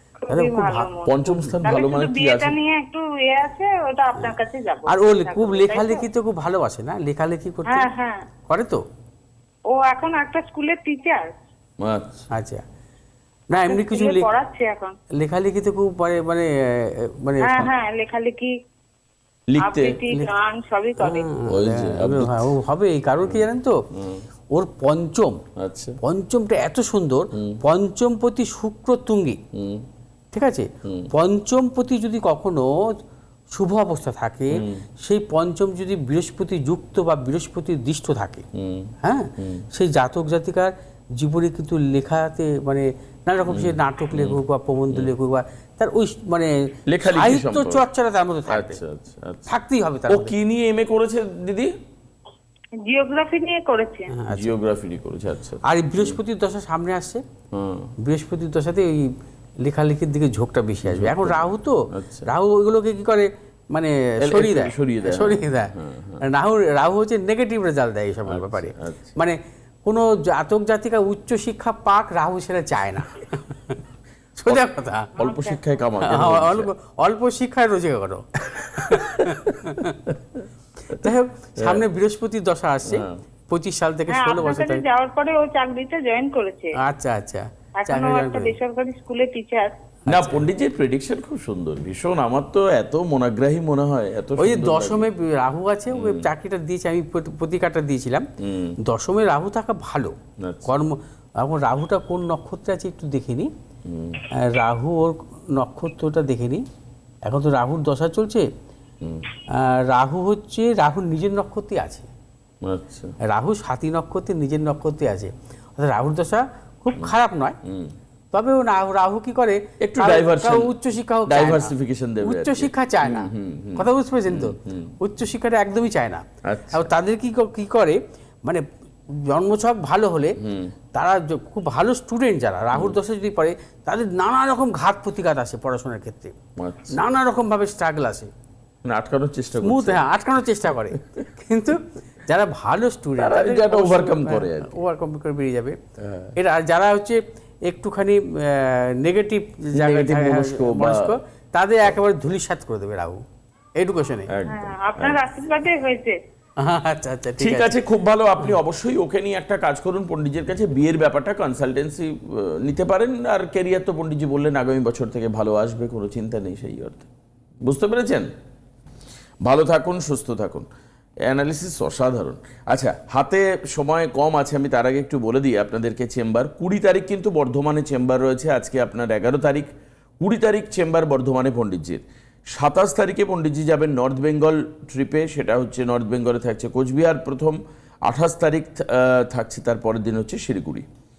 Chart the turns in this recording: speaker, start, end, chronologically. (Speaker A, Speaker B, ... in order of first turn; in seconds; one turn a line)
Speaker A: 0.3-6.0
Speaker B: 0.3-0.9
Speaker C: 1.1-2.6
Speaker B: 4.9-7.9
Speaker A: 7.7-8.3
Speaker B: 8.5-8.8
Speaker A: 9.7-11.3
Speaker C: 11.8-12.3
Speaker B: 12.3-12.6
Speaker B: 13.5-14.3
Speaker A: 13.6-15.0
Speaker B: 15.1-17.7
Speaker A: 17.4-18.5
Speaker C: 19.5-20.0
Speaker A: 19.6-21.3
Speaker B: 21.0-23.8
Speaker C: 21.5-22.5
Speaker C: 23.3-24.2
Speaker B: 24.5-25.4
Speaker C: 25.6-26.0
Speaker B: 26.0-29.4
Speaker C: 29.5-29.9
Speaker B: 30.3-32.9
Speaker C: 30.8-31.1
Speaker B: 33.5-38.5
Speaker C: 34.6-34.9
Speaker C: 38.5-39.6
Speaker B: 39.0-48.8
Speaker C: 43.5-44.4
Speaker C: 46.9-47.9
Speaker C: 48.5-49.5
Speaker B: 49.5-50.4
Speaker C: 50.1-51.7
Speaker A: 52.8-54.1
Speaker B: 54.1-54.6
Speaker C: 54.3-56.2
Speaker B: 55.6-57.2
Speaker C: 57.5-57.9
Speaker B: 58.0-59.1
Speaker B: 59.6-73.8
Speaker C: 60.8-62.3
Speaker C: 64.2-66.2
Speaker C: 68.3-69.2
Speaker B: 74.4-75.2
Speaker C: 75.2-76.7
Speaker A: 75.2-75.6
Speaker B: 76.0-80.1
Speaker C: 78.5-81.8
Speaker B: 80.9-84.8
Speaker C: 82.8-83.2
Speaker A: 84.1-86.8
Speaker B: 86.8-88.5
Speaker A: 87.8-89.7
Speaker B: 90.1-90.4
Speaker C: 90.1-95.1
Speaker B: 94.4-98.3
Speaker C: 95.9-96.3
Speaker C: 98.4-98.8
Speaker B: 98.8-103.5
Speaker C: 100.4-100.8
Speaker C: 103.9-104.2
Speaker B: 104.3-106.6
Speaker B: 107.2-108.5
Speaker B: 109.5-112.1
Speaker C: 112.6-113.2
Speaker B: 113.2-117.6
Speaker C: 117.0-117.9
Speaker B: 118.3-130.4
Speaker C: 119.8-125.0
Speaker C: 126.4-126.9
Speaker C: 130.4-130.7
Speaker B: 130.9-136.4
Speaker C: 132.7-133.0
Speaker C: 136.6-137.0
Speaker B: 136.9-138.3
Speaker C: 138.8-140.1
Speaker B: 139.6-145.8
Speaker C: 143.2-144.8
Speaker C: 146.0-146.3
Speaker B: 146.4-153.2
Speaker C: 149.7-151.2
Speaker B: 153.8-154.3
Speaker C: 154.3-155.2
Speaker A: 154.5-156.2
Speaker B: 156.6-157.7
Speaker C: 157.4-167.1
Speaker C: 167.6-168.3
Speaker C: 169.4-170.7
Speaker C: 171.2-190.9